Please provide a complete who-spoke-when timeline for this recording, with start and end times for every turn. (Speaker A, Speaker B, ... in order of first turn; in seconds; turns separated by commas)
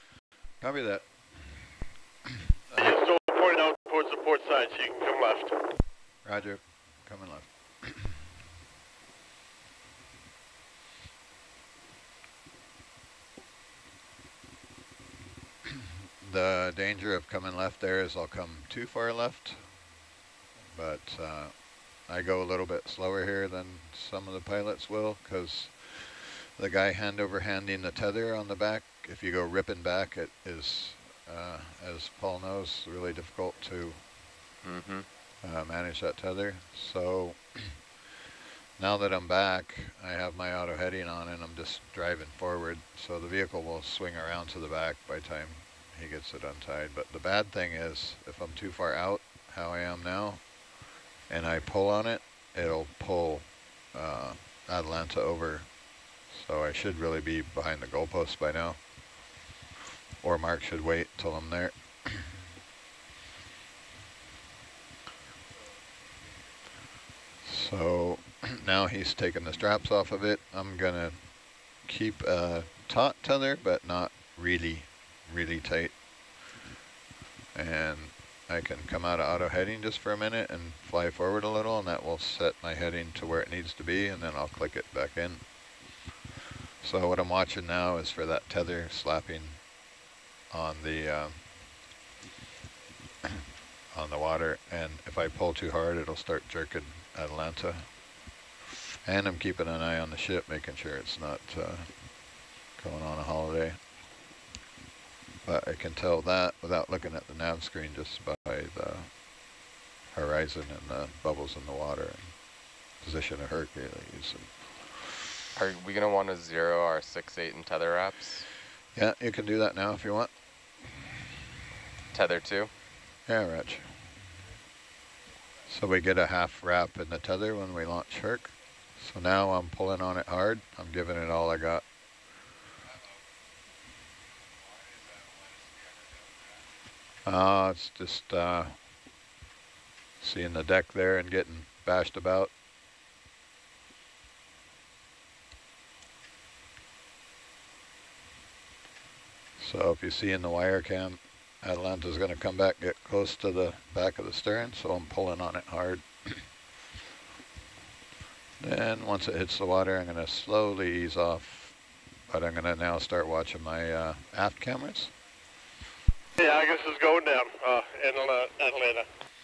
Speaker A: 0.6-1.1, Speaker B: 2.8-5.6, Speaker A: 6.2-8.0, Speaker A: 16.2-19.6, Speaker A: 20.7-34.0, Speaker C: 34.6-35.1, Speaker A: 35.4-37.8, Speaker A: 38.8-50.4, Speaker A: 51.3-55.7, Speaker A: 56.3-58.8, Speaker A: 60.2-62.3, Speaker A: 67.4-76.0, Speaker A: 77.5-85.4, Speaker A: 86.8-89.6, Speaker A: 90.5-91.4, Speaker A: 93.9-97.9, Speaker A: 99.0-102.0, Speaker A: 102.7-103.8, Speaker A: 105.4-109.1, Speaker A: 110.1-112.4, Speaker A: 113.0-114.9, Speaker C: 115.5-118.5, Speaker A: 118.9-120.3, Speaker C: 122.1-122.7, Speaker A: 123.2-123.9, Speaker A: 125.7-131.8, Speaker A: 137.2-138.8, Speaker A: 140.2-142.5, Speaker A: 149.6-156.4, Speaker A: 158.6-165.1, Speaker B: 166.4-169.1